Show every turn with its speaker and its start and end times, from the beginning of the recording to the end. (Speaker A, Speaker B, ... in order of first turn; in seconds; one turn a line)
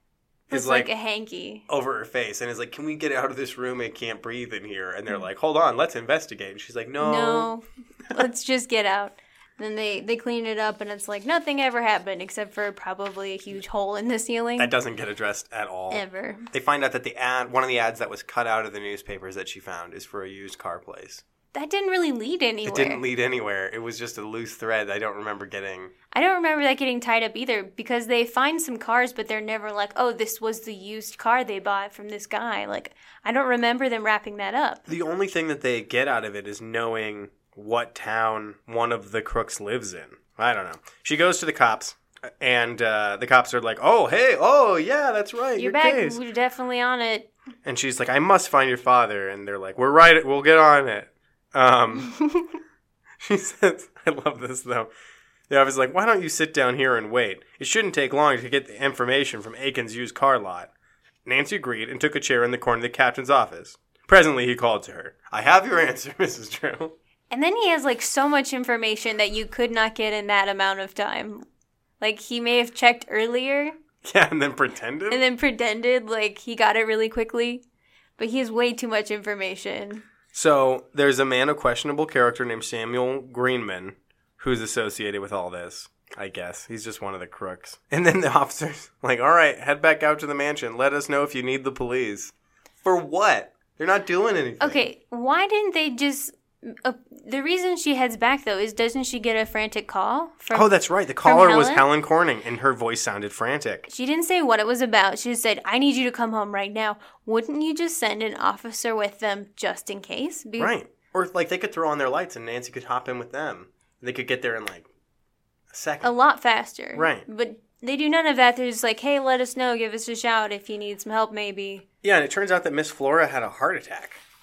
Speaker A: 0.5-0.9
Speaker B: 0.5-1.7
Speaker A: 1.7-7.5
Speaker B: 7.0-14.7
Speaker A: 14.6-21.2
Speaker B: 15.9-16.5
Speaker B: 21.5-23.0
Speaker A: 22.6-25.9
Speaker B: 26.1-34.9
Speaker A: 34.9-46.2
Speaker B: 45.6-47.3
Speaker A: 47.6-52.1
Speaker A: 53.2-54.9
Speaker A: 55.5-60.7
Speaker A: 61.3-67.0
Speaker B: 67.3-71.5
Speaker B: 72.0-73.8
Speaker A: 74.0-75.2
Speaker B: 75.1-77.6
Speaker B: 78.2-80.0
Speaker A: 80.3-94.8
Speaker B: 94.6-100.7
Speaker A: 100.5-103.9
Speaker B: 101.2-101.9
Speaker B: 103.9-110.7
Speaker A: 110.6-114.9
Speaker A: 115.7-116.1
Speaker B: 116.0-121.8
Speaker A: 116.9-117.2
Speaker A: 122.0-124.2